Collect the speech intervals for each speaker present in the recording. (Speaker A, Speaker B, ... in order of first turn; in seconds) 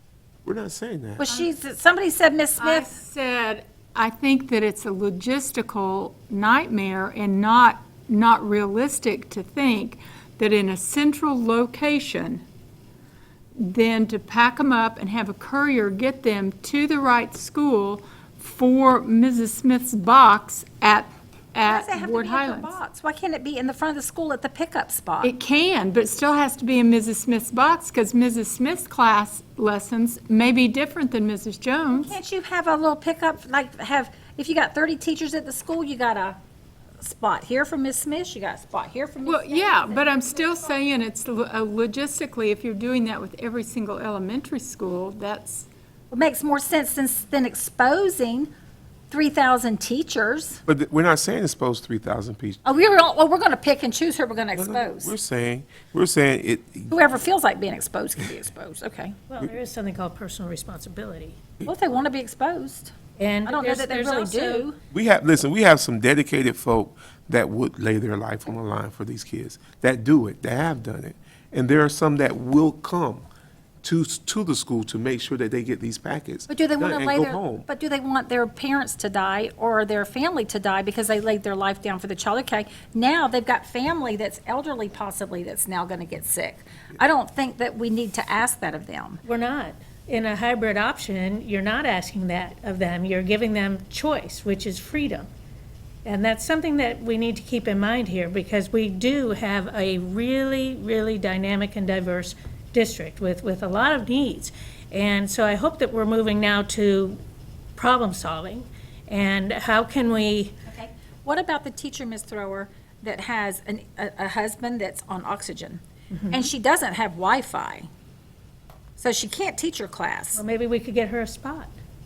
Speaker A: 0.5-1.3, 50.7-52.6, 54.5-57.0, 64.9-73.2, 73.8-77.7
Speaker B: 1.2-2.9, 21.6-25.3, 31.9-36.4, 37.0-40.8, 46.1-48.5, 49.1-50.6, 52.6-55.1, 56.9-59.2, 61.6-62.9, 63.5-64.8, 76.5-89.2, 110.7-117.9, 119.0-120.4
Speaker C: 2.6-12.4, 13.6-22.8, 25.2-32.1, 39.2-45.7
Speaker D: 59.3-61.4, 63.2-64.7, 89.3-95.3, 96.0-107.2, 107.8-110.6, 116.1-116.5, 120.3-121.7